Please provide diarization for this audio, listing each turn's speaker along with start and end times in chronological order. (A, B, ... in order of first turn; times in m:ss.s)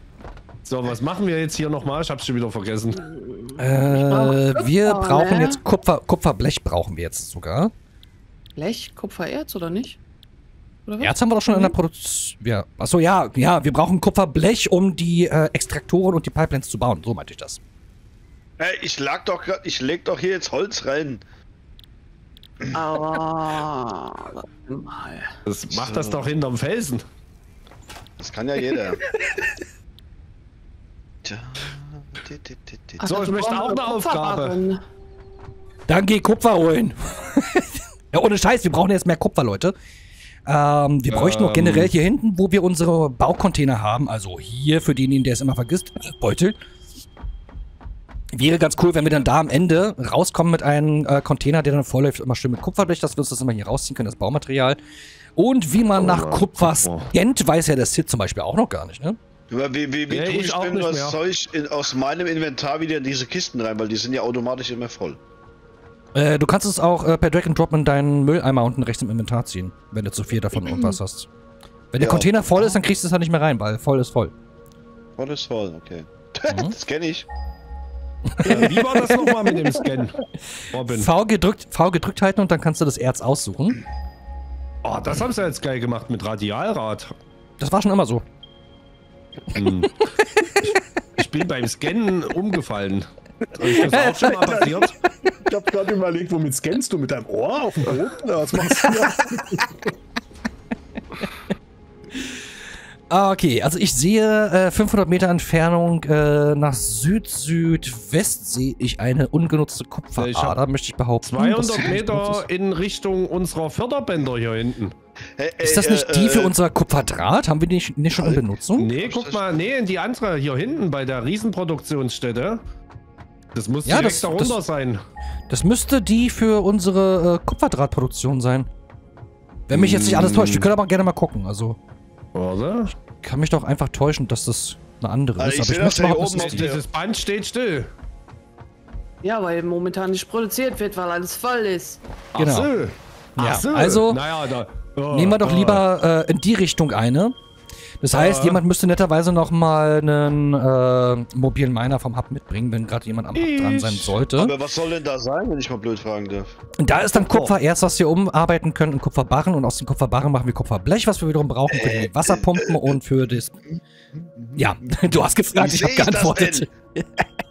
0:00.6-0:03.1 A
0:03.3-0:05.6 B
0:03.6-0:07.7 C
0:08.6-0:10.0 B
0:10.8-0:11.8 B
0:11.0-0:17.6 C
0:18.6-0:21.2 D
0:22.7-0:25.3 B
0:25.4-0:27.0 A
0:25.7-0:26.2 D
0:28.2-0:29.0 D
0:31.2-0:33.3 D
0:33.0-0:34.8 B
0:33.0-0:34.6 A
0:35.9-0:39.7 C
0:40.4-0:46.6 C
0:41.1-0:41.9 A
0:48.3-0:54.8 C
0:55.4-0:59.2 C
0:55.9-0:57.1 A
0:59.5-1:05.2 D
1:00.1-1:01.2 A
1:06.1-1:11.3 C
1:11.9-1:14.3 C
1:12.0-1:12.8 D
1:15.2-1:17.3 D
1:18.3-1:19.3 C
1:18.4-1:20.2 A
1:20.7-1:21.1 A
1:20.9-1:23.8 C
1:24.8-1:27.1 A
1:27.6-1:28.2 C
1:29.5-1:30.0 A
1:30.6-1:35.0 A
1:33.6-1:39.8 E
1:33.7-1:34.8 C
1:43.1-1:52.4 C
1:50.2-1:50.6 A
1:51.2-1:54.9 A
1:55.4-1:56.5 D
1:55.6-1:58.9 C
1:58.2-1:59.7 D
1:58.8-2:02.6 A
2:03.5-2:05.0 A
2:03.8-2:04.6 C
2:05.5-2:08.7 C
2:09.7-2:11.8 C
2:09.7-2:10.7 A
2:12.3-2:12.9 A
2:13.2-2:16.7 C
2:15.4-2:16.8 D
2:16.4-2:17.9 A
2:19.2-2:22.0 B
2:22.3-2:25.8 A
2:22.4-2:22.7 C
2:23.4-2:24.2 C
2:25.1-2:27.3 C
2:28.0-2:34.5 C
2:28.1-2:28.6 A
2:33.3-2:34.2 A
2:34.3-2:36.5 D
2:36.8-2:43.6 C
2:37.1-2:37.5 A
2:41.7-2:42.5 D
2:43.7-2:44.7 D
2:44.6-2:47.2 C
2:45.6-2:46.7 D